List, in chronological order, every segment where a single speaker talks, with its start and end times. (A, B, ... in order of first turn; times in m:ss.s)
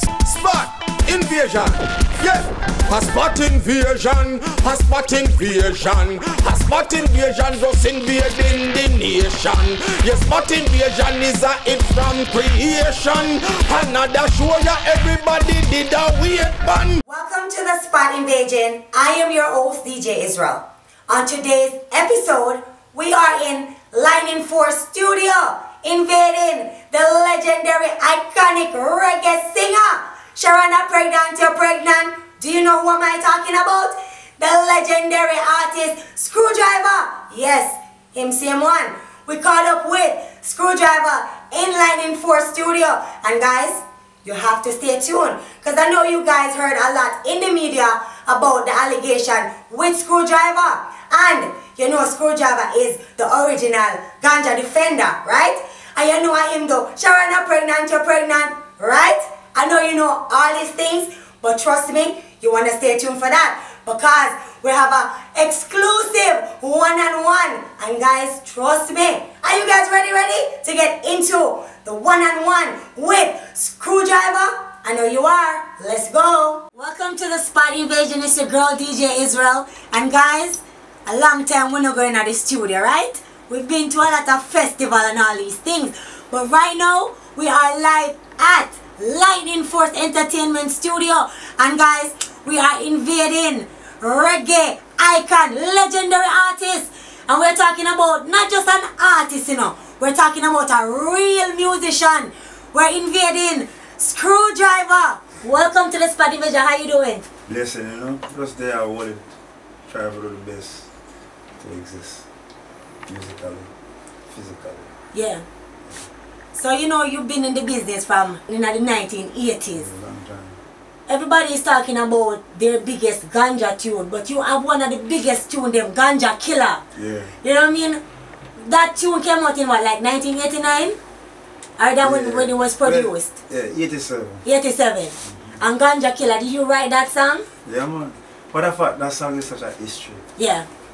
0:00.2-0:17.0 A
0:17.1-1:47.2 B
1:47.5-1:49.2 C
1:49.9-1:50.9 C
1:51.6-1:52.3 C
1:53.1-1:53.7 C
1:54.3-1:54.9 C
1:55.1-1:55.4 B
1:56.5-1:59.9 B
1:59.7-2:00.6 C
2:01.1-2:06.8 B
2:06.9-2:07.3 C
2:07.4-2:08.0 B
2:08.6-2:11.0 B
2:11.8-2:13.4 B
2:12.0-2:14.4 C
2:14.4-2:17.4 B
2:15.2-2:15.6 C
2:17.6-2:20.2 C
2:20.4-2:20.7 B